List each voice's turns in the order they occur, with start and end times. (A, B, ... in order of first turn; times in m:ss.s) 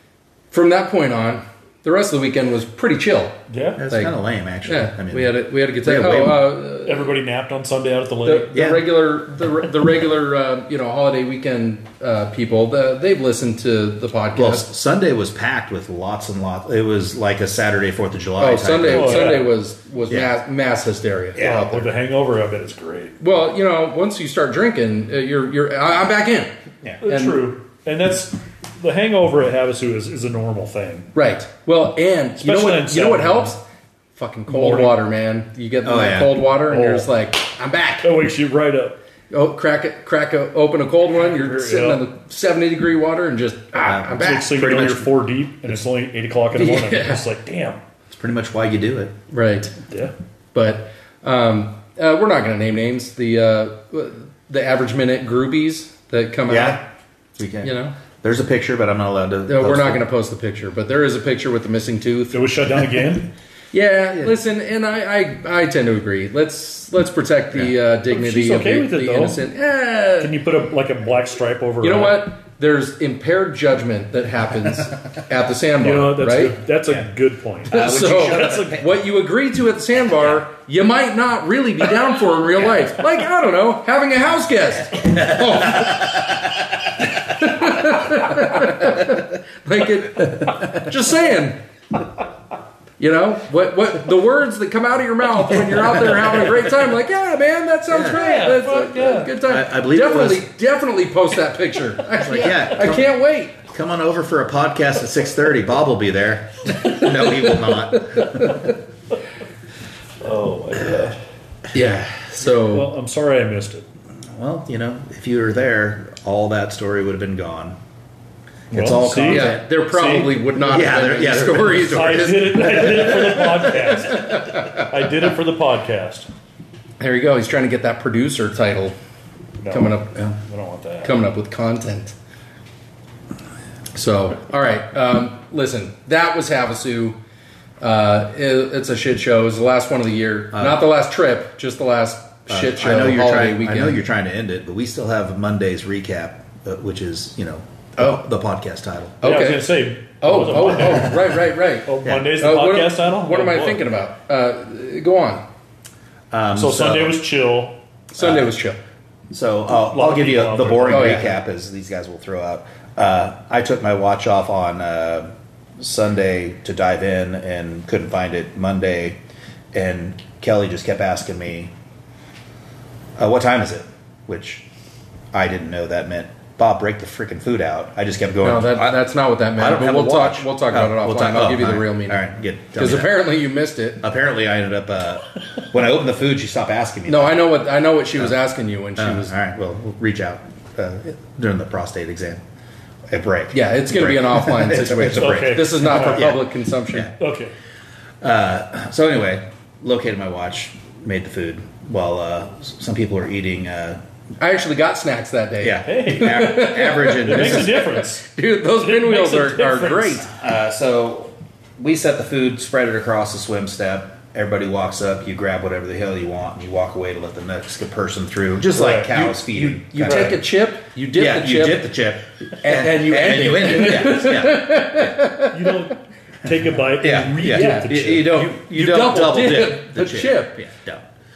0:00.5-0:03.4 A
0:03.5-0:03.8 B
0:03.8-0:06.5 C
0:04.6-0:07.1 A
0:06.8-0:08.5 B
0:08.2-0:14.6 A
0:08.5-0:08.9 C
0:14.3-0:19.4 C
0:18.4-0:21.8 A
0:18.8-0:19.5 B
0:21.4-0:21.8 C
0:21.4-0:23.2 B
0:23.2-0:26.5 A
0:27.0-0:31.1 B
0:27.0-0:27.5 A
0:31.1-0:33.6 A
0:32.4-0:33.5 B
0:34.1-0:38.1 A
0:34.5-0:34.9 B
0:35.8-0:36.4 C
0:36.6-0:37.1 B
0:38.0-0:39.0 B
0:39.3-0:44.8 A
0:41.2-0:42.0 B
0:43.8-0:45.1 C
0:44.1-0:47.8 B
0:46.5-0:47.2 A
0:48.1-0:49.1 C
0:49.3-0:49.7 A
0:49.9-0:50.1 B
0:50.5-0:56.8 A
0:56.5-0:56.8 C
0:57.4-1:00.0 C
0:57.6-0:57.9 A
0:59.5-1:02.4 A
1:02.3-1:03.3 B
1:03.7-1:10.4 A
1:08.1-1:09.4 B
1:10.2-1:12.2 B
1:11.8-1:16.6 A
1:15.8-1:18.7 B
1:17.6-1:18.9 C
1:17.7-1:26.4 A
1:27.0-1:31.6 A
1:33.0-1:43.6 A
1:37.9-1:38.2 C
1:38.0-1:39.3 B
1:39.4-1:40.5 C
1:42.2-1:48.6 C
1:48.1-1:48.6 A
1:50.2-1:51.2 B
1:51.7-1:52.9 A
1:52.5-1:53.8 B
1:54.3-1:57.8 C
1:58.7-1:59.7 C
1:58.7-2:00.5 B
1:59.2-2:03.5 A
2:00.6-2:02.3 C
2:01.8-2:06.3 B
2:04.2-2:04.7 A
2:07.0-2:08.9 A
2:09.6-2:11.2 B
2:09.7-2:10.1 A
2:11.0-2:12.1 A
2:13.9-2:17.2 A
2:17.8-2:24.0 A
2:20.5-2:20.8 C
2:22.5-2:29.2 C
2:29.2-2:31.2 B
2:29.2-2:35.4 A
2:31.8-2:33.8 B
2:32.0-2:32.3 C
2:36.3-2:37.2 C
2:36.5-2:37.8 B
2:38.1-2:38.8 A
2:38.2-2:38.5 C
2:39.3-2:49.2 C
2:39.8-2:41.3 B
2:40.9-2:41.3 A
2:49.7-2:51.7 C
2:53.2-2:54.6 C
2:55.3-2:59.0 C
2:58.4-3:02.2 A
2:59.6-3:03.1 C
3:02.7-3:04.0 A
3:04.0-3:07.4 C
3:07.1-3:09.3 A
3:09.0-3:12.4 C
3:13.1-3:17.1 C
3:13.5-3:17.1 A
3:15.1-3:16.3 B
3:17.2-3:17.5 B
3:18.2-3:24.0 C
3:24.4-3:30.3 A
3:25.6-3:27.9 C
3:25.8-3:28.2 B
3:28.8-3:30.3 B
3:30.3-3:40.4 C
3:38.7-3:39.3 B
3:39.1-3:41.8 A
3:40.0-3:40.4 B
3:41.1-3:44.8 C
3:42.6-3:45.8 A
3:45.5-3:48.5 B
3:47.0-3:51.0 C
3:47.5-3:50.6 A